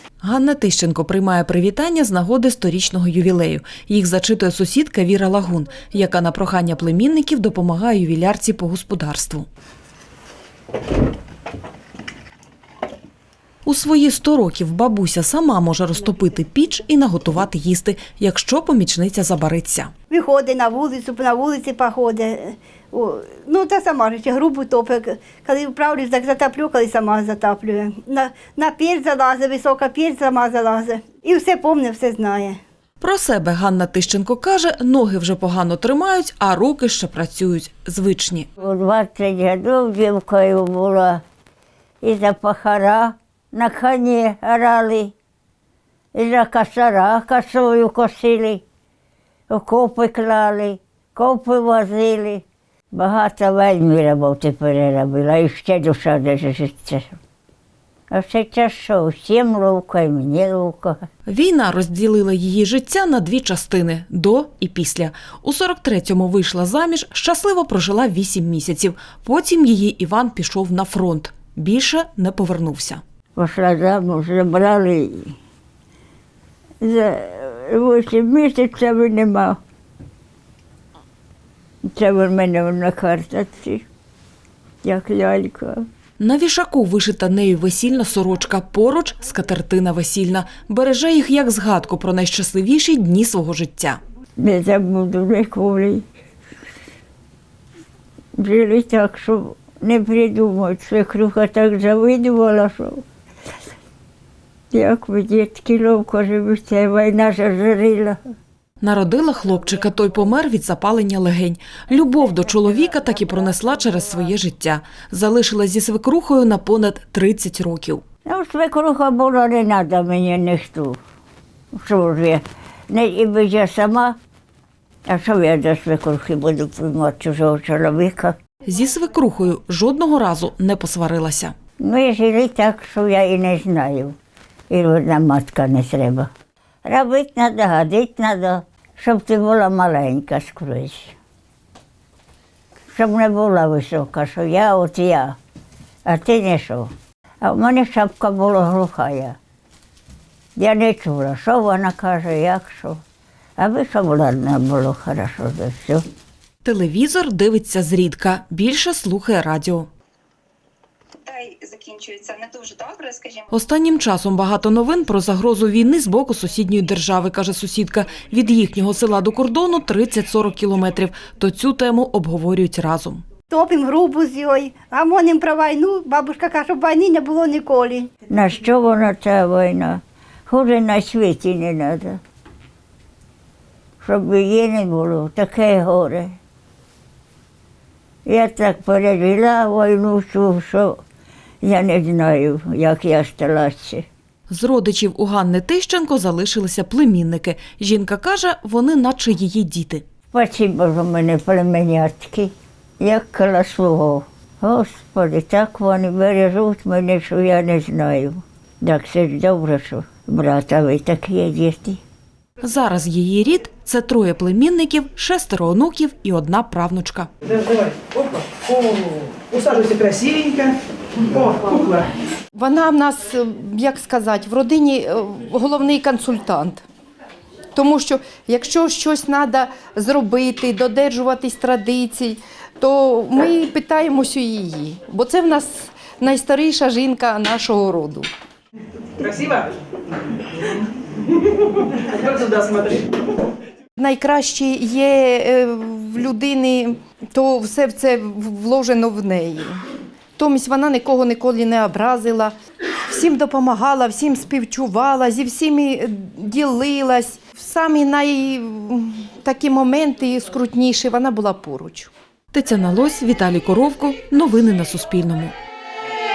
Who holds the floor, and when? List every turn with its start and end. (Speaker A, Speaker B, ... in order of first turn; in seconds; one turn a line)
Speaker A: 0.2-9.5
Speaker A: 13.7-19.9
Speaker B: 20.1-32.6
Speaker A: 33.0-38.5
Speaker C: 38.6-41.2
Speaker C: 42.0-45.1
Speaker C: 46.1-48.6
Speaker C: 49.5-57.2
Speaker C: 58.1-61.0
Speaker A: 61.3-73.0
Speaker C: 73.4-75.3
Speaker C: 76.8-79.6
Speaker C: 81.8-83.9
Speaker C: 84.8-85.8
Speaker A: 86.2-94.0
Speaker C: 94.4-96.0
Speaker C: 98.4-103.0
Speaker C: 104.7-108.2
Speaker A: 108.8-118.0
Speaker C: 118.3-121.0
Speaker C: 121.7-124.2
Speaker C: 125.1-128.4
Speaker A: 128.7-131.5
Speaker C: 131.8-134.2
Speaker C: 134.7-136.3
Speaker C: 136.8-141.2
Speaker C: 142.9-145.4
Speaker C: 146.1-146.9
Speaker C: 147.4-149.4
Speaker C: 150.6-153.0
Speaker C: 153.6-156.1
Speaker A: 156.6-159.9
Speaker D: 161.2-163.5
Speaker A: 163.5-173.2
Speaker B: 173.5-178.1
Speaker C: 178.3-182.2
Speaker C: 184.0-186.3
Speaker C: 188.3-191.0
Speaker C: 191.6-194.1
Speaker A: 194.5-200.0
Speaker C: 200.3-212.0
Speaker A: 212.6-217.3
Speaker E: 217.6-222.1
Speaker F: 222.6-226.8
Speaker F: 227.7-238.3
Speaker E: 239.2-239.8
Speaker E: 242.2-243.1
Speaker F: 244.0-249.8
Speaker F: 250.4-252.6
Speaker F: 253.1-262.1
Speaker A: 262.5-265.6